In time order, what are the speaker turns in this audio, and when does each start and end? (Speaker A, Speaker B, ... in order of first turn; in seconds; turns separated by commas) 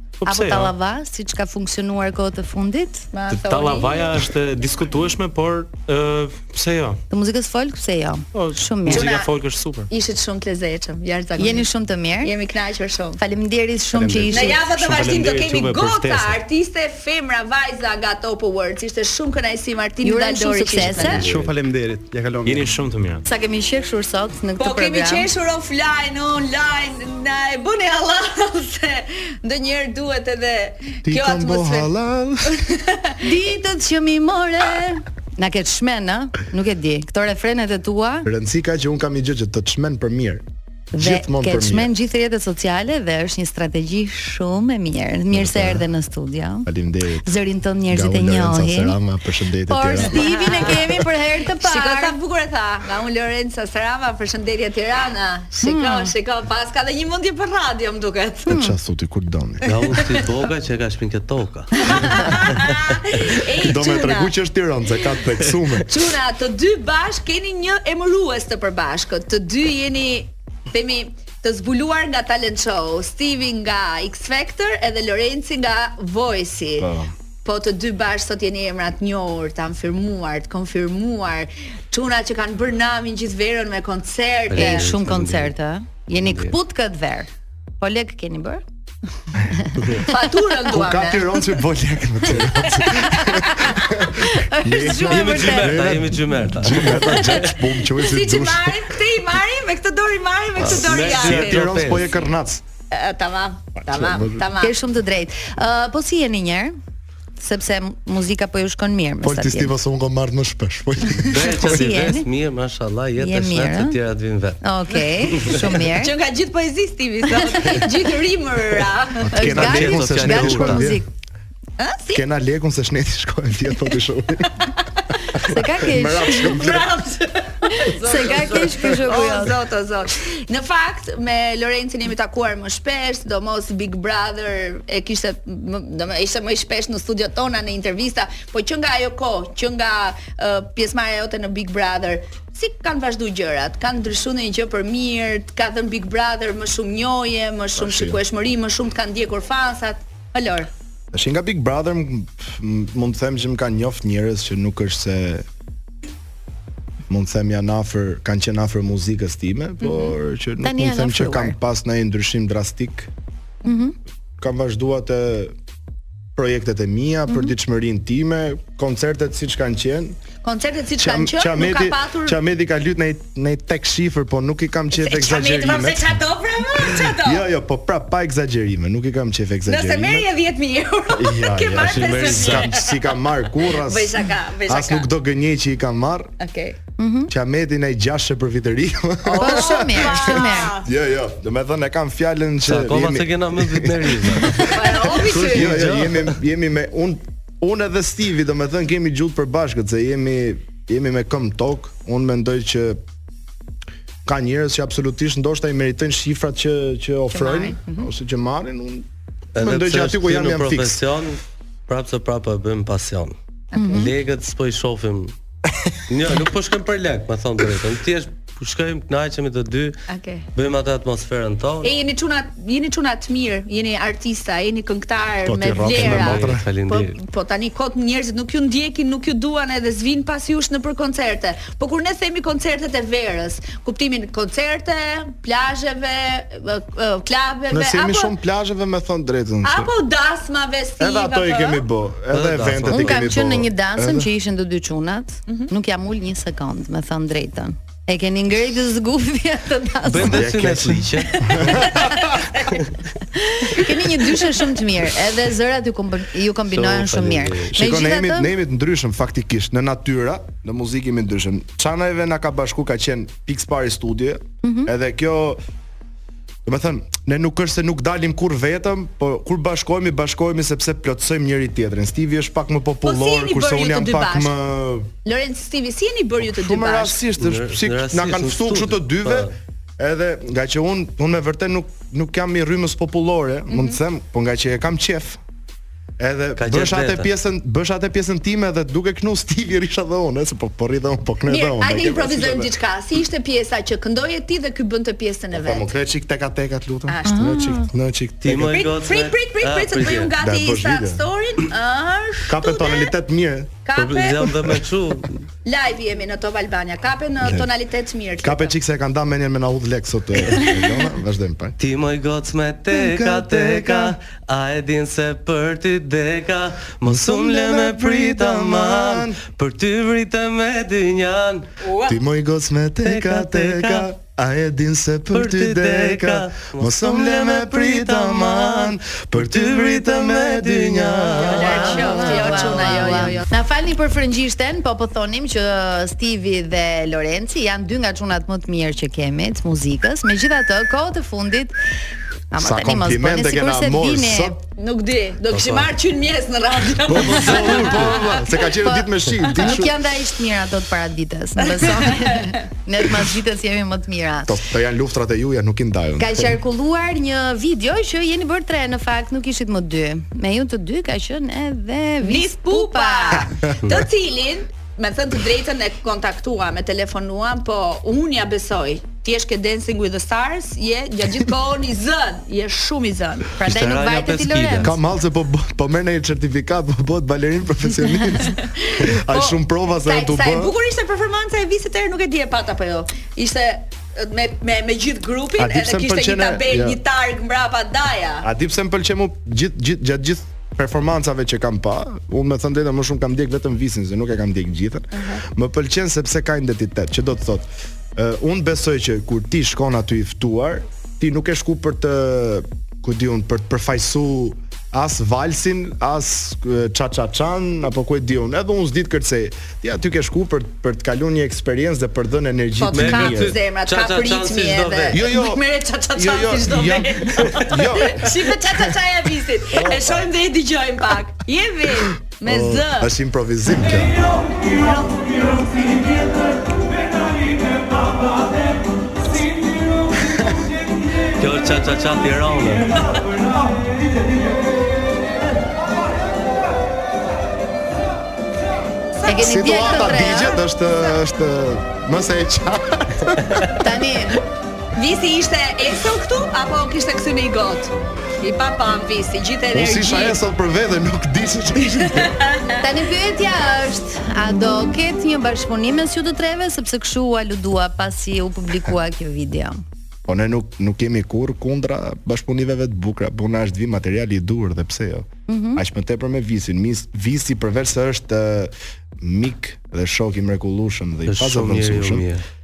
Speaker A: 0.2-0.7, Speaker B: 0.2-3.1, Speaker C: 3.1-4.1, Speaker A: 3.3-7.0, Speaker B: 7.1-9.1, Speaker A: 8.3-9.9, Speaker C: 8.9-9.3, Speaker C: 9.9-11.7, Speaker B: 11.4-12.3, Speaker C: 12.2-13.2, Speaker B: 13.2-14.6, Speaker D: 13.9-14.6, Speaker C: 14.3-21.2, Speaker A: 14.7-16.4, Speaker B: 20.0-21.2, Speaker A: 20.8-21.5, Speaker D: 21.1-22.8, Speaker A: 22.4-23.3, Speaker B: 23.2-25.3, Speaker C: 24.6-31.9, Speaker E: 31.0-32.6, Speaker C: 32.5-33.2, Speaker B: 33.2-38.3, Speaker E: 38.2-40.4, Speaker B: 40.9-46.7, Speaker E: 41.0-41.9, Speaker E: 45.3-45.9, Speaker E: 46.6-47.3, Speaker B: 47.2-49.0, Speaker E: 47.9-50.8, Speaker B: 49.7-52.2, Speaker C: 50.0-50.8, Speaker C: 51.6-58.6, Speaker B: 55.6-56.1, Speaker B: 58.5-58.8, Speaker E: 58.5-59.7, Speaker F: 59.6-62.2, Speaker C: 59.8-60.2, Speaker C: 61.8-64.3, Speaker E: 63.6-65.9, Speaker C: 65.8-76.9, Speaker E: 76.8-77.1, Speaker C: 77.4-84.9, Speaker F: 84.5-85.5, Speaker B: 84.5-87.3, Speaker F: 86.2-86.5, Speaker B: 87.8-88.6, Speaker B: 89.5-89.8, Speaker C: 90.0-91.5, Speaker E: 90.7-98.8, Speaker C: 92.6-93.8, Speaker B: 94.2-96.0, Speaker F: 95.0-97.5, Speaker C: 97.0-101.7, Speaker E: 100.6-102.6, Speaker F: 100.6-102.2, Speaker C: 102.9-104.8, Speaker E: 103.8-104.4, Speaker B: 104.6-106.7, Speaker B: 107.4-109.7, Speaker E: 109.2-111.8, Speaker F: 111.2-114.6, Speaker B: 111.4-112.3, Speaker B: 113.2-114.0, Speaker B: 114.6-116.2, Speaker F: 115.3-115.7, Speaker C: 115.9-119.4, Speaker B: 117.4-117.8, Speaker E: 119.2-121.0, Speaker B: 119.3-121.1, Speaker F: 119.4-120.9, Speaker C: 121.8-122.2, Speaker E: 122.1-124.7, Speaker B: 125.3-126.7, Speaker E: 125.3-126.9, Speaker C: 126.3-150.7, Speaker B: 127.7-129.6, Speaker E: 147.8-148.2, Speaker E: 151.1-155.4, Speaker E: 157.1-163.1, Speaker C: 159.8-160.1, Speaker B: 160.6-161.6, Speaker B: 163.6-163.9, Speaker E: 164.4-165.5, Speaker E: 166.3-170.2, Speaker B: 167.3-167.5, Speaker C: 170.4-172.4, Speaker E: 171.0-176.2, Speaker C: 174.9-177.4, Speaker E: 176.9-180.3, Speaker C: 179.7-183.1, Speaker E: 181.1-186.3, Speaker F: 181.8-182.7, Speaker C: 183.7-185.1, Speaker C: 186.4-186.8, Speaker B: 187.0-187.3, Speaker E: 187.3-203.0, Speaker C: 189.2-190.9, Speaker B: 189.4-190.7, Speaker F: 192.6-196.4, Speaker C: 194.6-195.8, Speaker E: 204.2-211.0, Speaker C: 207.3-208.0, Speaker F: 209.6-213.3, Speaker C: 213.7-214.1, Speaker B: 213.7-214.1, Speaker F: 213.9-215.3, Speaker F: 216.1-220.0, Speaker C: 220.1-220.5, Speaker F: 220.5-221.9, Speaker C: 221.8-238.3, Speaker E: 225.4-226.7, Speaker F: 225.9-227.2, Speaker E: 237.7-239.9, Speaker C: 239.6-241.8, Speaker E: 241.0-244.3, Speaker F: 242.3-243.3, Speaker B: 242.9-250.5, Speaker F: 250.0-251.8, Speaker E: 250.2-252.4, Speaker C: 251.4-252.8, Speaker B: 253.3-258.5, Speaker F: 256.7-257.7, Speaker E: 257.7-265.6, Speaker B: 264.6-264.9, Speaker E: 266.6-275.1, Speaker C: 273.0-274.5, Speaker C: 275.2-277.2, Speaker E: 276.4-285.4, Speaker F: 277.4-279.5, Speaker C: 283.7-284.0, Speaker E: 286.2-292.7, Speaker F: 286.6-287.3, Speaker C: 291.5-295.9, Speaker E: 295.5-298.8, Speaker C: 297.1-297.5, Speaker B: 297.3-297.9, Speaker F: 298.4-300.4, Speaker C: 298.6-303.1, Speaker E: 300.4-301.2, Speaker E: 302.5-303.8, Speaker C: 303.8-304.6, Speaker F: 303.9-305.4, Speaker C: 305.6-308.7, Speaker E: 307.4-307.7, Speaker E: 308.4-311.8, Speaker F: 311.8-321.7, Speaker E: 312.9-314.1, Speaker E: 317.0-319.4, Speaker C: 321.8-322.2, Speaker E: 322.1-332.3, Speaker F: 323.0-324.1, Speaker F: 325.3-332.5, Speaker C: 331.4-333.5, Speaker B: 331.5-341.7, Speaker B: 342.5-344.6, Speaker E: 342.6-344.6, Speaker C: 344.8-348.3, Speaker F: 345.5-345.9, Speaker E: 347.1-349.9, Speaker F: 347.3-348.2, Speaker B: 348.8-354.6, Speaker C: 351.7-352.6, Speaker E: 354.5-356.6, Speaker B: 356.2-363.6, Speaker C: 362.2-373.5, Speaker E: 363.7-364.0, Speaker B: 373.6-374.9, Speaker F: 373.6-375.0, Speaker E: 374.8-380.7, Speaker C: 378.5-388.5, Speaker E: 385.6-387.0, Speaker E: 388.4-413.6, Speaker C: 395.1-395.4, Speaker C: 412.8-423.1, Speaker F: 412.9-415.3, Speaker E: 415.1-415.6, Speaker E: 416.1-418.8, Speaker E: 419.7-420.1, Speaker E: 422.4-424.2, Speaker C: 424.7-426.1, Speaker E: 430.2-430.6, Speaker F: 431.4-433.1, Speaker C: 439.2-440.1, Speaker B: 439.2-440.6, Speaker E: 439.3-443.6, Speaker B: 443.7-444.4, Speaker C: 444.9-450.4, Speaker E: 449.7-452.3, Speaker C: 452.2-452.8, Speaker B: 452.8-459.8, Speaker E: 460.3-472.3, Speaker B: 465.5-465.8, Speaker F: 471.2-472.4